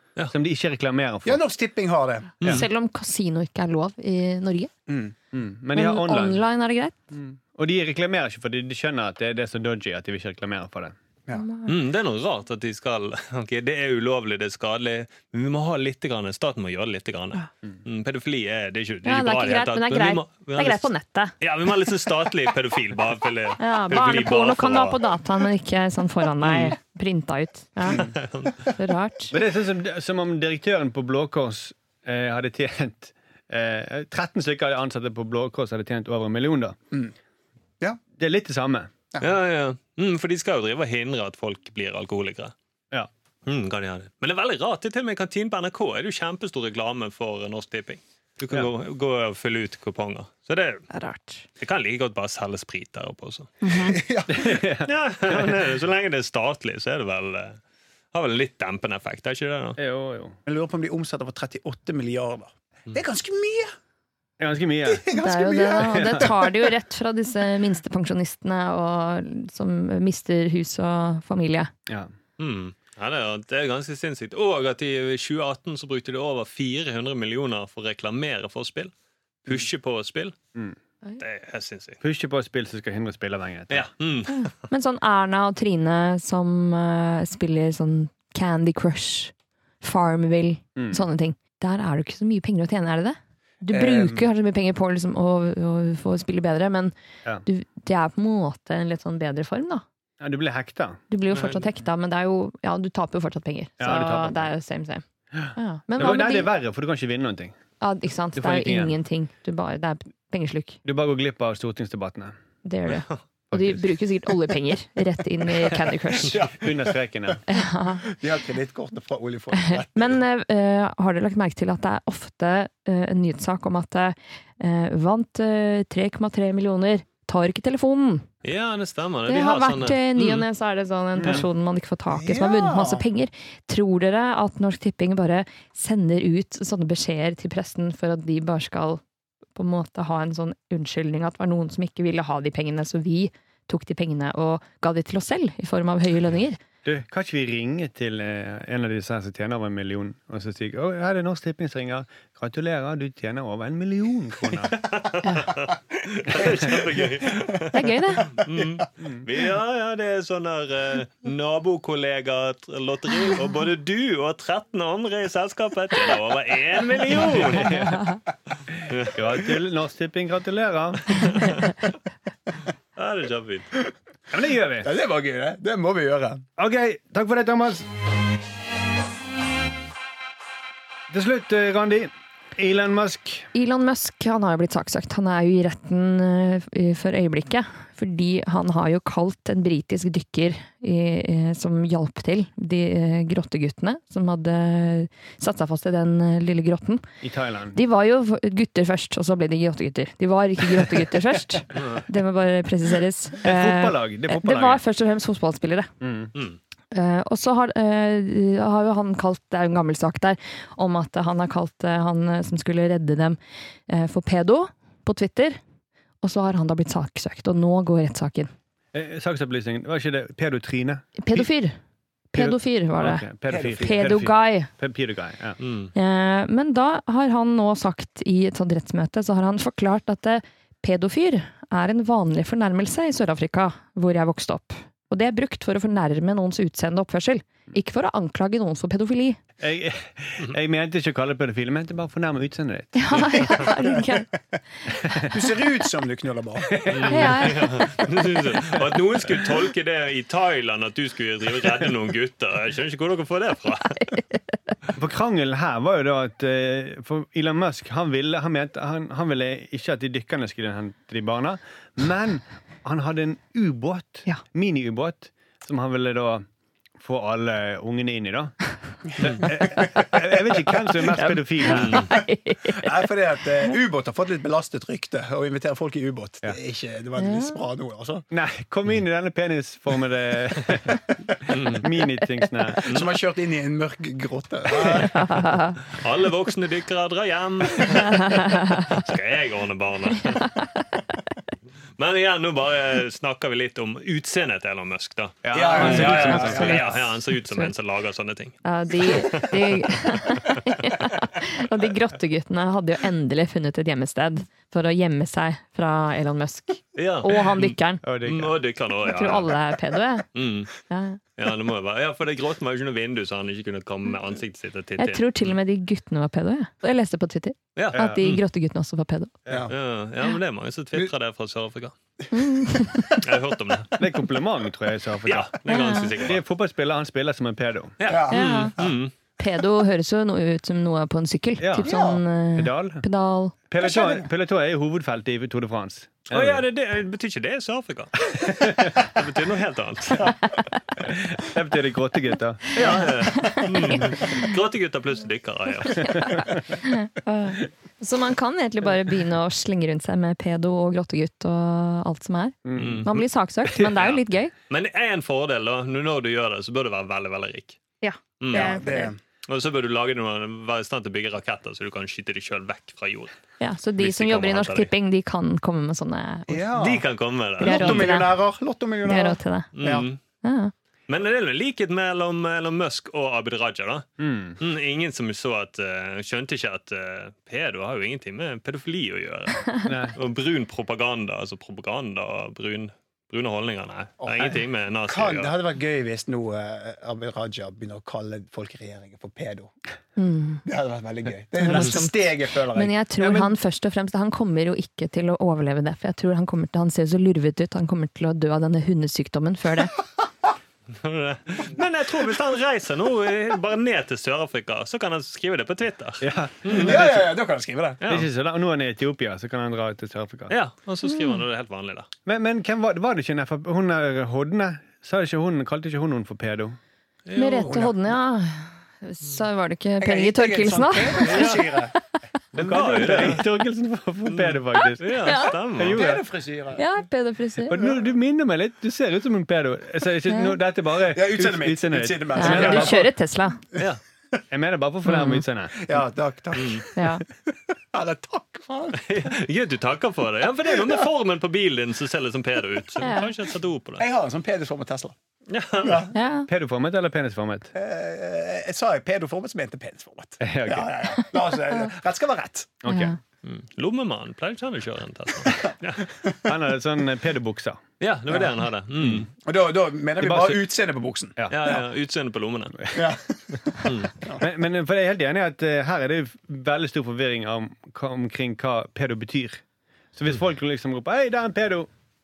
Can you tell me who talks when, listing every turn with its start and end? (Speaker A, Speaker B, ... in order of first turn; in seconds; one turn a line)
Speaker A: 0.3-1.4
Speaker B: 1.2-2.4
Speaker C: 2.5-4.7
Speaker B: 4.9-5.2
Speaker A: 5.3-6.4
Speaker C: 5.7-7.0
Speaker A: 7.1-10.9
Speaker C: 11.3-11.7
Speaker D: 11.7-20.9
Speaker C: 19.1-21.3
Speaker D: 21.4-25.0
Speaker C: 23.6-28.1
Speaker D: 26.4-26.7
Speaker D: 27.9-28.7
Speaker C: 28.7-29.4
Speaker A: 29.3-36.8
Speaker A: 38.2-38.9
Speaker D: 39.2-42.5
Speaker D: 43.5-50.9
Speaker C: 50.9-51.4
Speaker D: 51.6-53.5
Speaker C: 53.6-54.0
Speaker B: 53.7-54.7
Speaker A: 54.3-55.7
Speaker D: 54.9-57.6
Speaker D: 58.1-59.8
Speaker A: 59.8-60.4
Speaker B: 60.5-63.7
Speaker A: 64.4-65.1
Speaker B: 64.9-66.5
Speaker C: 65.2-71.7
Speaker A: 65.8-66.3
Speaker D: 72.4-78.9
Speaker D: 79.5-80.4
Speaker D: 81.2-82.0
Speaker A: 82.0-83.9
Speaker D: 83.7-84.5
Speaker C: 84.3-96.9
Speaker A: 90.8-91.0
Speaker A: 93.7-94.3
Speaker C: 97.5-99.8
Speaker A: 100.2-101.0
Speaker C: 101.1-106.5
Speaker D: 101.3-101.6
Speaker A: 103.8-104.5
Speaker A: 105.3-107.6
Speaker C: 107.8-110.8
Speaker A: 108.3-109.0
Speaker A: 110.8-112.3
Speaker C: 112.6-116.4
Speaker A: 113.5-113.9
Speaker B: 116.1-117.4
Speaker A: 116.5-117.4
Speaker C: 117.5-118.1
Speaker B: 118.1-120.2
Speaker C: 119.6-128.3
Speaker D: 128.4-130.5
Speaker C: 129.3-139.0
Speaker A: 131.2-131.4
Speaker B: 132.1-133.0
Speaker C: 139.6-146.6
Speaker A: 146.8-154.8
Speaker D: 154.8-167.8
Speaker C: 155.2-155.5
Speaker B: 156.2-157.5
Speaker C: 157.7-158.3
Speaker B: 158.4-158.8
Speaker A: 167.1-168.2
Speaker A: 168.8-171.6
Speaker D: 168.8-169.4
Speaker D: 171.2-171.6
Speaker D: 173.0-173.7
Speaker A: 174.3-174.9
Speaker B: 174.8-176.4
Speaker A: 176.6-177.9
Speaker A: 181.1-183.5
Speaker C: 183.5-197.0
Speaker A: 197.2-197.8
Speaker C: 197.7-205.9
Speaker A: 203.4-204.8
Speaker A: 206.0-206.3
Speaker C: 206.9-213.4
Speaker C: 213.9-215.6
Speaker C: 216.2-218.5
Speaker A: 218.9-221.5
Speaker C: 221.2-221.8
Speaker C: 222.3-224.7
Speaker A: 222.4-225.6
Speaker B: 223.5-224.2
Speaker D: 225.6-225.9
Speaker C: 225.9-239.4
Speaker A: 239.6-243.6
Speaker C: 242.9-244.3
Speaker B: 245.2-247.2
Speaker A: 246.7-247.6
Speaker D: 246.9-254.0
Speaker C: 247.1-247.9
Speaker A: 255.0-266.4
Speaker A: 267.0-272.1
Speaker C: 271.1-273.1
Speaker D: 271.7-272.1
Speaker B: 272.7-278.2
Speaker C: 277.2-277.7
Speaker A: 278.3-281.0
Speaker D: 281.5-281.9
Speaker A: 281.7-282.9
Speaker B: 282.8-285.4
Speaker D: 282.9-283.1
Speaker C: 284.9-285.8
Speaker D: 285.9-290.5
Speaker C: 288.1-288.8
Speaker C: 290.3-290.6
Speaker D: 292.0-299.6
Speaker A: 295.4-296.8
Speaker B: 295.5-296.9
Speaker C: 295.8-297.7
Speaker C: 298.6-308.0
Speaker D: 307.0-309.6
Speaker A: 308.0-308.6
Speaker C: 309.1-310.3
Speaker D: 310.3-310.7
Speaker C: 310.9-311.2
Speaker D: 311.4-315.5
Speaker C: 315.0-319.3
Speaker D: 317.8-318.4
Speaker A: 317.9-318.2
Speaker B: 319.5-319.7
Speaker D: 319.7-321.9
Speaker C: 322.3-323.1
Speaker B: 322.8-323.2
Speaker D: 323.2-324.0
Speaker A: 324.0-325.5
Speaker D: 325.2-326.4
Speaker C: 325.7-326.1
Speaker A: 326.2-328.0
Speaker D: 328.0-329.1
Speaker B: 328.1-329.0
Speaker C: 328.3-328.7
Speaker C: 329.4-333.6
Speaker A: 331.6-331.9
Speaker B: 331.8-332.2
Speaker A: 332.6-333.1
Speaker A: 333.7-336.6
Speaker B: 333.8-334.3
Speaker D: 336.3-338.2
Speaker A: 338.4-339.1
Speaker D: 338.9-340.4
Speaker A: 341.0-342.8
Speaker D: 342.8-346.4
Speaker C: 342.9-344.5
Speaker C: 346.0-354.5
Speaker A: 352.6-353.2
Speaker D: 352.8-353.1
Speaker D: 353.8-357.8
Speaker C: 358.0-359.1
Speaker D: 358.4-358.9
Speaker B: 358.5-359.2
Speaker D: 359.5-363.4
Speaker C: 363.6-366.7
Speaker D: 364.0-364.9
Speaker B: 366.5-367.1
Speaker D: 366.8-368.1
Speaker B: 367.6-370.1
Speaker C: 367.6-368.3
Speaker C: 369.1-369.7
Speaker D: 369.8-370.2
Speaker C: 370.4-370.7
Speaker D: 371.1-374.1
Speaker A: 374.2-374.6
Speaker D: 374.6-385.5
Speaker A: 379.8-380.1
Speaker B: 384.2-389.7
Speaker C: 390.2-390.6
Speaker B: 390.6-393.0
Speaker C: 391.6-392.1
Speaker C: 392.7-399.9
Speaker A: 393.2-393.5
Speaker D: 400.9-407.0
Speaker A: 406.2-407.3
Speaker B: 406.7-408.0
Speaker D: 408.0-408.3
Speaker A: 408.1-410.5
Speaker D: 410.5-412.1
Speaker A: 412.3-416.8
Speaker D: 417.3-417.8
Speaker C: 417.4-421.6
Speaker B: 417.7-418.0
Speaker B: 420.0-421.9
Speaker D: 421.2-421.6
Speaker D: 422.5-423.5
Speaker A: 422.6-426.2
Speaker D: 424.3-426.1
Speaker C: 425.2-425.6
Speaker B: 425.8-426.8
Speaker C: 426.8-427.8
Speaker A: 427.7-433.1
Speaker B: 427.7-428.1
Speaker C: 430.3-430.6
Speaker B: 431.0-433.1
Speaker C: 432.4-433.6
Speaker D: 433.8-434.0
Speaker A: 434.5-435.9
Speaker C: 435.1-435.4
Speaker B: 435.8-436.9
Speaker D: 436.6-436.9
Speaker C: 437.0-437.2
Speaker B: 437.7-439.3
Speaker D: 439.0-444.0
Speaker B: 440.8-441.0
Speaker C: 443.0-443.3
Speaker B: 444.0-445.2
Speaker D: 445.5-446.1
Speaker B: 445.8-446.1
Speaker C: 446.1-446.5
Speaker A: 446.5-447.7
Speaker B: 447.7-452.8
Speaker A: 450.4-450.9
Speaker A: 452.8-453.1
Speaker C: 452.9-453.2
Speaker D: 453.4-456.0
Speaker B: 455.6-456.5
Speaker A: 456.5-457.8
Speaker D: 458.0-459.3
Speaker A: 459.0-459.3
Speaker B: 459.4-461.4
Speaker A: 460.2-460.6
Speaker A: 461.4-461.8
Speaker D: 461.5-462.9
Speaker B: 462.9-464.4
Speaker D: 463.9-464.1
Speaker A: 464.4-469.6
Speaker A: 470.1-471.9